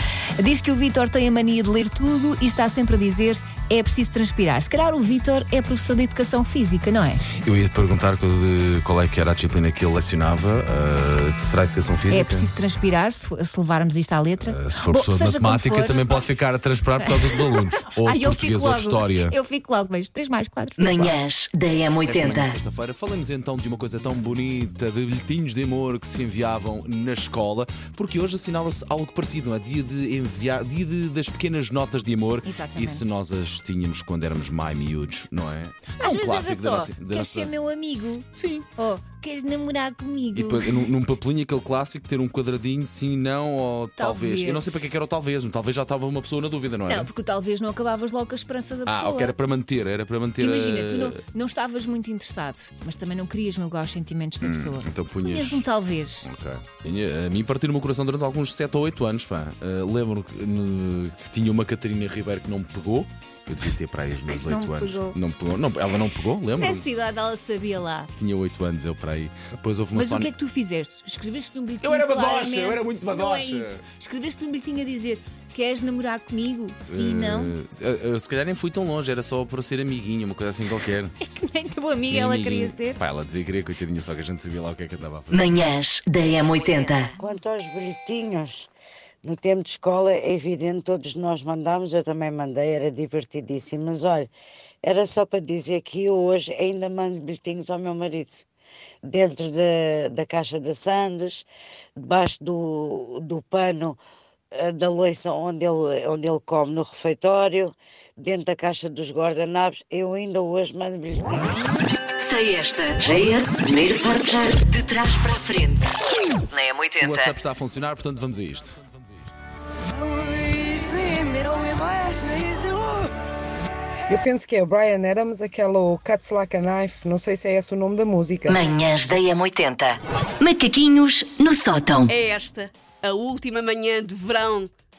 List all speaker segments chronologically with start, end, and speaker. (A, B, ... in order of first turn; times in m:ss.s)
0:00.4-0:07.2 A
0:07.4-0:12.5 B
0:12.1-0:16.2 A
0:14.4-0:19.3 B
0:17.0-0:21.2 A
0:20.8-0:22.2 C
0:22.0-0:37.5 B
0:32.4-0:33.1 A
0:36.0-0:40.8 A
0:38.4-0:38.7 B
0:40.3-0:47.1 B
0:44.0-0:44.9 A
0:46.9-0:49.3 A
0:48.8-0:51.2 B
0:50.4-0:56.3 A
0:54.4-0:55.6 B
0:56.2-1:06.8 B
1:04.3-1:05.2 A
1:06.6-1:08.1 A
1:08.2-1:10.3 B
1:09.9-1:17.5 A
1:11.8-1:13.8 B
1:16.9-1:21.2 B
1:21.2-1:23.0 A
1:22.1-1:25.7 B
1:25.6-1:27.1 C
1:27.2-1:28.7 D
1:29.2-1:34.3 D
1:34.8-1:38.4 D
1:39.0-1:41.4 D
1:42.0-1:44.0 D
1:44.5-1:51.5 D
1:52.2-1:55.9 C
1:56.5-1:56.9 C
1:57.0-1:59.4 B
2:00.2-2:03.0 E
2:04.1-2:08.6 E
2:08.5-2:12.1 C
2:12.1-2:14.7 F